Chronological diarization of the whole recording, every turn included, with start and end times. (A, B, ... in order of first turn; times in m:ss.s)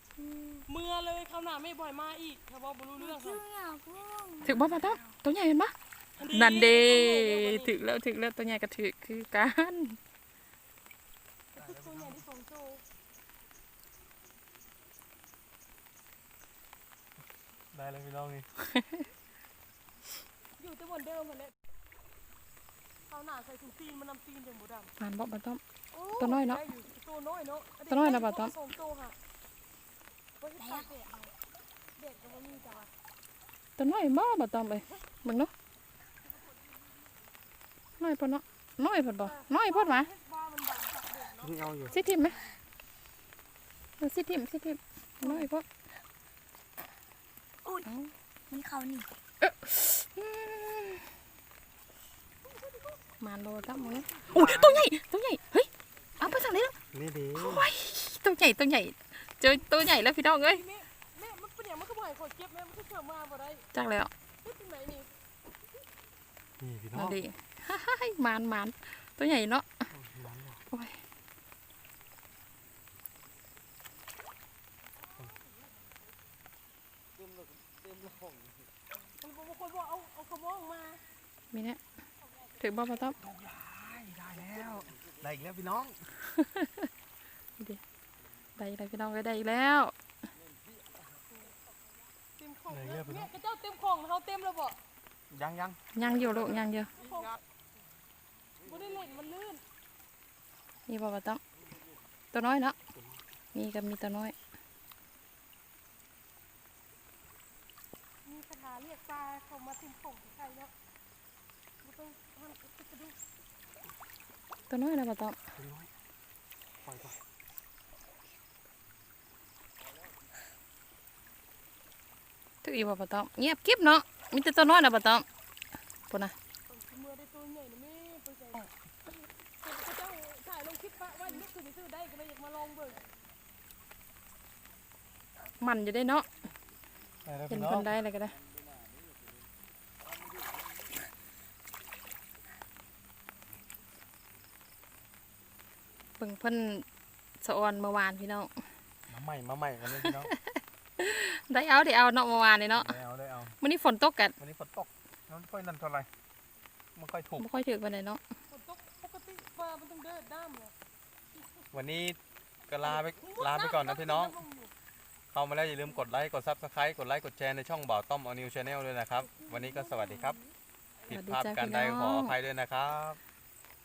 0:00.7-0:03.4 A
0:03.0-0:04.4 B
0:04.4-0:10.0 C
0:06.2-0:07.8 A
0:11.6-0:12.8 A
0:17.7-0:18.5 D
0:20.6-0:21.5 A
0:23.1-0:24.9 A
0:25.0-0:25.6 C
0:25.9-0:29.2 A
0:26.2-0:26.6 C
0:27.9-0:28.5 C
0:30.4-0:31.3 A
0:32.0-0:32.9 A
0:33.8-0:35.5 C
0:38.0-0:40.1 C
0:39.2-0:42.6 A
0:41.4-0:42.0 D
0:41.9-0:42.4 C
0:44.0-0:45.6 C
0:45.2-0:45.5 A
0:47.8-0:48.1 C
0:48.5-0:49.1 B
0:49.4-0:51.1 C
0:52.5-0:53.0 A
0:53.2-0:56.8 C
0:53.8-0:54.4 A
0:54.3-0:54.9 D
0:56.9-0:57.7 D
0:57.4-1:00.6 C
1:00.5-1:03.7 A
1:03.7-1:04.1 C
1:04.4-1:05.2 A
1:06.6-1:07.2 D
1:06.9-1:09.8 C
1:09.9-1:10.6 D
1:10.7-1:11.0 C
1:19.2-1:21.0 A
1:21.5-1:21.8 C
1:22.6-1:23.2 C
1:23.2-1:26.1 D
1:26.3-1:26.9 C
1:28.6-1:29.9 C
1:32.4-1:34.8 A
1:32.7-1:33.3 D
1:35.3-1:35.8 D
1:35.9-1:36.9 C
1:37.0-1:37.3 A
1:38.6-1:39.6 A
1:40.9-1:41.4 C
1:42.3-1:42.8 C
1:43.0-1:43.2 D
1:43.5-1:44.4 C
1:48.2-1:50.7 A
1:51.8-1:53.2 A
1:54.7-1:55.4 C
1:55.6-1:55.9 D
1:56.8-1:57.2 D
2:02.6-2:05.2 C
2:06.1-2:06.4 C
2:06.7-2:08.7 A
2:09.6-2:13.0 A
2:15.6-2:16.3 C
2:17.2-2:17.9 D
2:17.5-2:18.4 C
2:26.2-2:26.8 C
2:27.4-2:28.5 C
2:29.1-2:30.3 D
2:30.0-2:33.0 C
2:32.8-2:33.6 D
2:33.6-2:34.4 C
2:34.4-2:36.1 D
2:37.0-2:37.5 D
2:37.4-2:38.2 C
2:38.5-2:40.7 A
2:41.7-2:42.2 D
2:42.7-2:44.4 D
2:42.8-2:44.7 A
2:45.3-2:50.4 D
2:51.1-2:53.2 D
2:51.1-2:52.4 C